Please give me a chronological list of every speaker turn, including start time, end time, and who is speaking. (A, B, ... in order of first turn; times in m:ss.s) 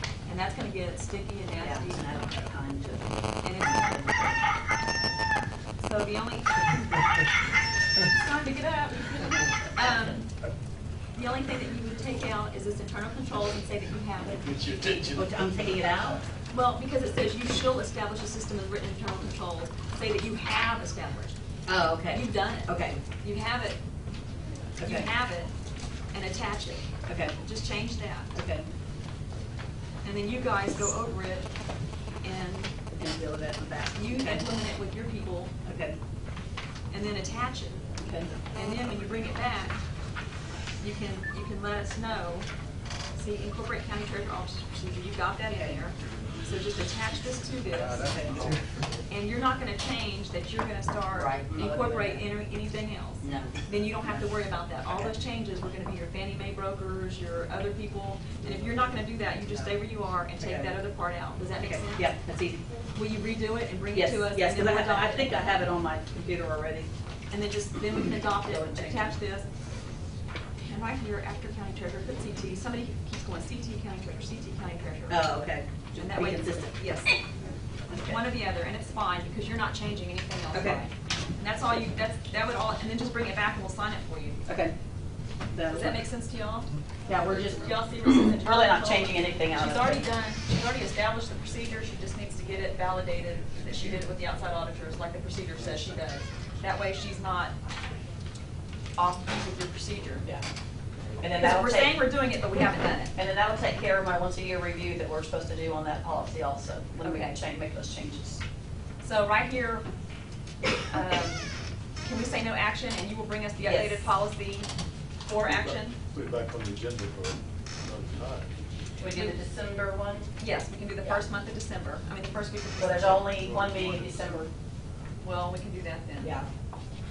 0:00.3-0:02.0 A
0:01.6-0:04.4 B
0:03.4-0:04.1 A
0:05.8-0:07.0 A
0:08.1-0:10.3 A
0:11.2-0:14.4 A
0:14.4-0:15.3 C
0:15.1-0:16.2 B
0:16.5-0:21.4 A
0:21.7-0:23.0 B
0:22.1-0:23.8 A
0:24.8-0:25.1 B
0:24.8-0:25.5 A
0:26.1-0:28.3 A
0:27.1-0:27.4 B
0:28.3-0:28.7 B
0:30.0-0:31.5 A
0:32.2-0:32.7 A
0:32.9-0:34.5 B
0:33.9-0:35.5 A
0:35.6-0:36.0 B
0:36.9-0:37.8 A
0:38.0-0:38.3 B
0:38.5-0:39.8 A
0:40.8-0:42.5 A
0:43.2-0:48.3 A
0:45.6-0:45.8 B
0:47.7-0:48.6 C
0:48.0-0:48.5 B
0:49.1-1:02.1 A
0:51.1-0:52.3 B
0:53.2-0:54.3 B
1:00.4-1:00.8 B
1:01.6-1:02.6 B
1:02.9-1:05.4 A
1:03.9-1:06.9 B
1:07.3-1:09.5 A
1:08.4-1:09.2 B
1:10.6-1:15.3 A
1:15.1-1:17.1 B
1:16.0-1:17.1 A
1:17.9-1:18.2 B
1:17.9-1:24.4 A
1:20.5-1:20.8 B
1:24.5-1:24.8 B
1:25.5-1:26.0 B
1:25.7-1:26.7 A
1:27.1-1:30.1 B
1:27.3-1:37.5 A
1:39.0-1:40.3 A
1:41.2-1:42.0 B
1:41.4-1:43.1 A
1:43.2-1:48.4 B
1:47.0-1:47.4 A
1:49.0-1:49.9 A
1:50.9-1:51.5 A
1:52.0-1:54.7 A
1:53.6-1:54.1 B
1:55.2-1:56.0 A
1:55.4-1:58.5 C
1:59.0-2:00.3 B
1:59.1-1:59.4 A
2:00.4-2:03.3 A
2:02.8-2:04.5 B
2:03.3-2:04.4 C
2:05.2-2:06.4 A
2:06.2-2:06.5 B